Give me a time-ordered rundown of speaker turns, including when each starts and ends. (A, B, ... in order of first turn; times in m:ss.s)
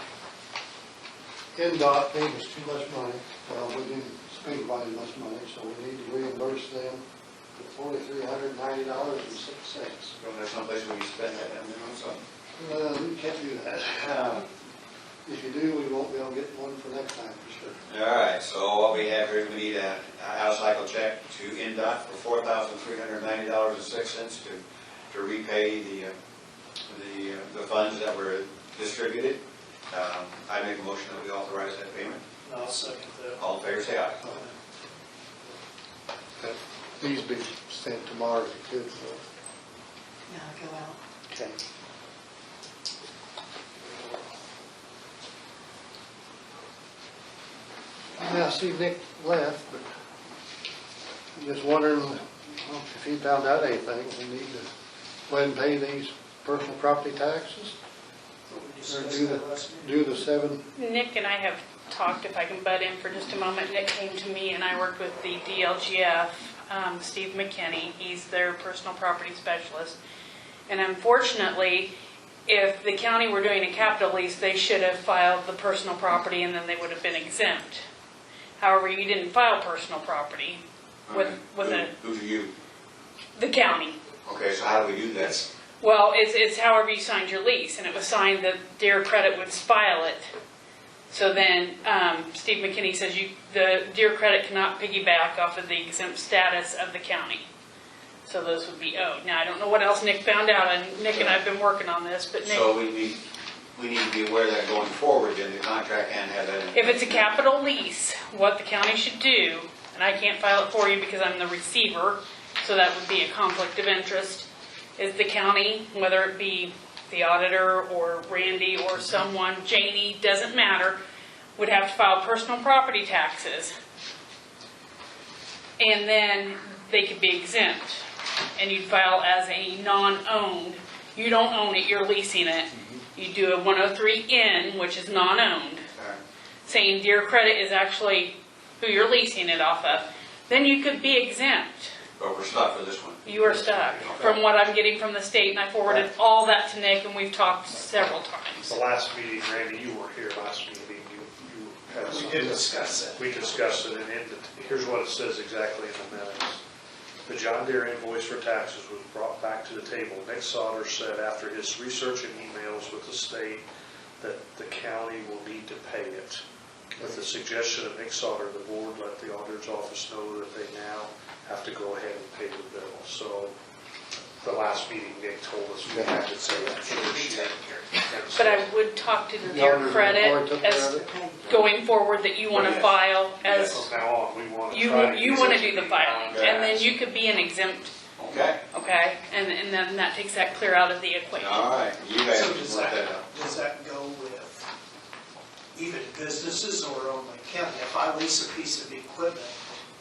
0:01.5-0:07.0 A
0:07.6-0:10.2 A
0:10.2-0:12.2 B
0:12.6-0:14.5 A
0:15.2-0:17.8 A
0:17.9-0:26.1 B
0:26.9-0:32.2 B
0:32.4-0:33.4 C
0:33.4-0:34.2 B
0:36.4-0:39.2 A
0:40.3-0:41.0 C
0:41.3-0:41.6 A
0:48.2-0:49.8 A
0:51.4-0:54.7 A
0:55.3-0:57.7 A
0:58.5-1:00.0 C
0:58.9-1:00.6 A
1:00.7-1:10.0 D
1:10.7-1:11.9 D
1:12.5-1:17.8 D
1:18.6-1:21.9 D
1:21.1-1:22.5 B
1:23.4-1:24.0 D
1:24.2-1:25.5 B
1:25.8-1:30.3 D
1:31.1-1:37.5 D
1:38.2-1:42.7 D
1:41.1-1:41.4 B
1:42.4-1:43.2 B
1:43.8-1:47.4 B
1:46.7-2:01.0 D
2:01.6-2:03.7 D
2:05.8-2:08.0 D
2:08.6-2:15.9 D
2:16.6-2:21.9 D
2:22.2-2:23.4 B
2:23.2-2:28.8 D
2:28.7-2:36.6 E
2:31.9-2:33.3 C
2:37.3-2:43.6 E
2:44.2-2:53.5 E
2:54.4-2:58.7 E
2:56.4-2:57.5 C
2:58.4-3:03.9 D
2:59.4-3:01.1 A
3:02.5-3:02.9 B
3:03.6-3:07.0 E
3:04.7-3:07.9 D
3:06.3-3:06.7 B
3:08.2-3:08.6 B
3:08.7-3:11.7 D
3:11.4-3:13.2 B
3:12.3-3:14.7 C
3:15.7-3:19.6 C